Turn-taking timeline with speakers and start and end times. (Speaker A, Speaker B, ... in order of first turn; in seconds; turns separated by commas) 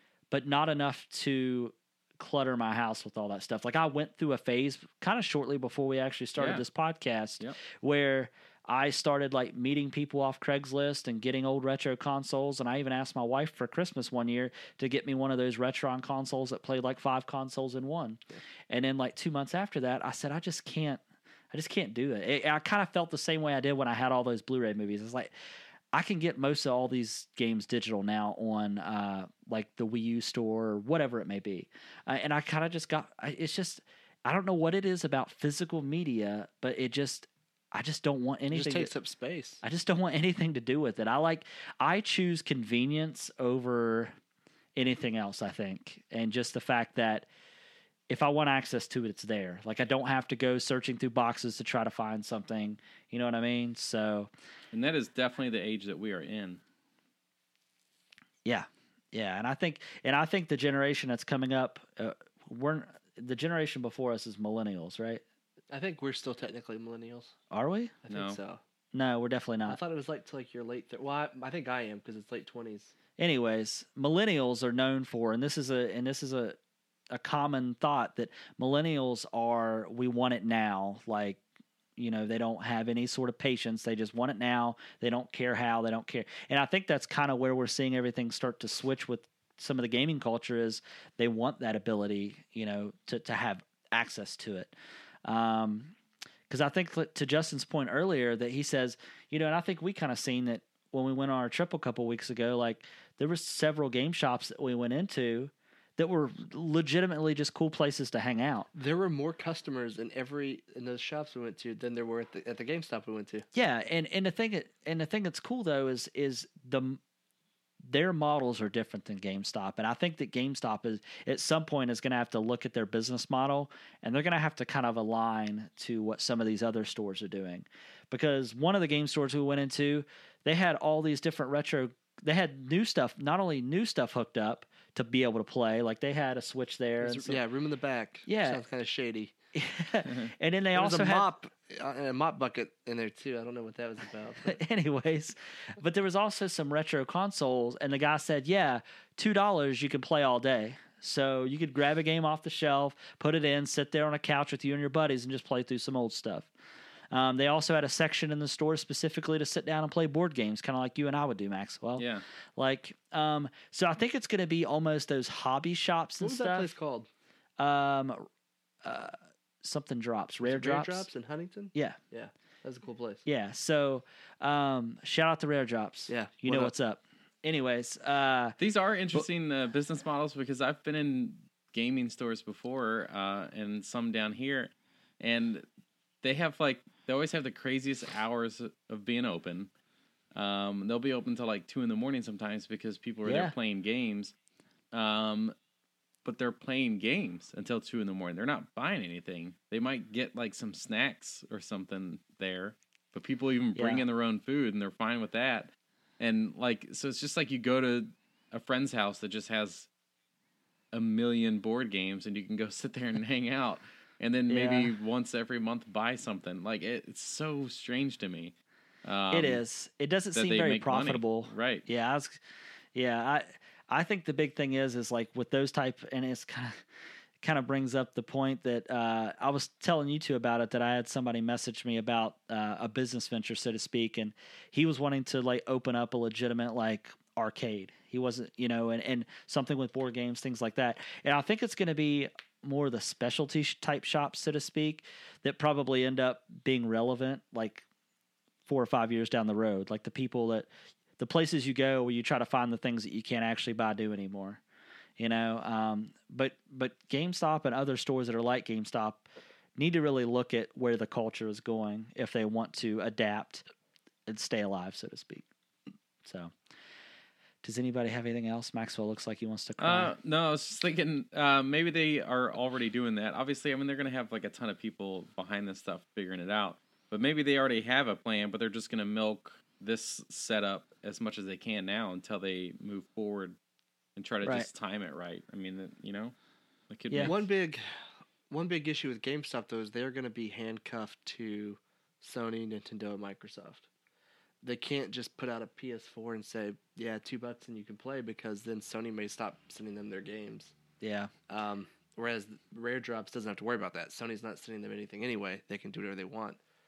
Speaker A: 0.3-21.0, Speaker B: 6.4-6.6, Speaker A: 21.5-25.3, Speaker A: 25.9-38.9, Speaker C: 38.5-39.6, Speaker A: 39.6-44.1, Speaker A: 44.8-47.3, Speaker A: 48.1-54.3, Speaker B: 54.7-56.6, Speaker A: 58.5-65.2, Speaker C: 65.7-67.3, Speaker A: 67.5-67.9, Speaker C: 68.0-68.6, Speaker B: 68.1-68.4, Speaker A: 68.9-69.8, Speaker C: 69.7-72.9, Speaker A: 73.2-76.6, Speaker A: 77.1-81.4, Speaker A: 82.0-94.7, Speaker A: 95.2-95.9, Speaker A: 96.5-108.7, Speaker C: 108.7-113.5, Speaker A: 113.5-117.0, Speaker A: 117.8-137.4, Speaker C: 137.0-139.3, Speaker A: 138.3-138.6, Speaker A: 139.5-141.3, Speaker C: 140.7-144.6, Speaker A: 144.4-156.5, Speaker A: 157.1-162.1, Speaker B: 162.0-162.2, Speaker A: 162.6-166.7, Speaker C: 166.2-167.1, Speaker A: 167.6-168.3, Speaker A: 168.8-171.1, Speaker C: 170.4-173.2, Speaker A: 173.3-178.6, Speaker C: 176.1-176.7, Speaker B: 178.6-185.7, Speaker B: 186.2-189.7, Speaker B: 190.3-194.3, Speaker A: 193.2-193.5, Speaker B: 194.9-195.5, Speaker B: 196.2-209.9, Speaker A: 203.8-204.1, Speaker B: 210.9-218.5, Speaker A: 214.5-214.9, Speaker B: 219.1-219.6, Speaker A: 219.3-222.4, Speaker B: 220.3-221.8, Speaker A: 222.9-226.8, Speaker A: 227.4-247.8, Speaker A: 248.7-254.6, Speaker A: 255.2-263.6, Speaker A: 264.3-265.4, Speaker A: 266.2-266.5, Speaker A: 267.6-270.1, Speaker B: 269.8-283.6, Speaker B: 284.2-286.3, Speaker B: 286.9-287.4, Speaker C: 287.2-287.8, Speaker C: 288.5-293.9, Speaker C: 294.6-300.7, Speaker A: 301.0-301.3, Speaker C: 301.5-306.6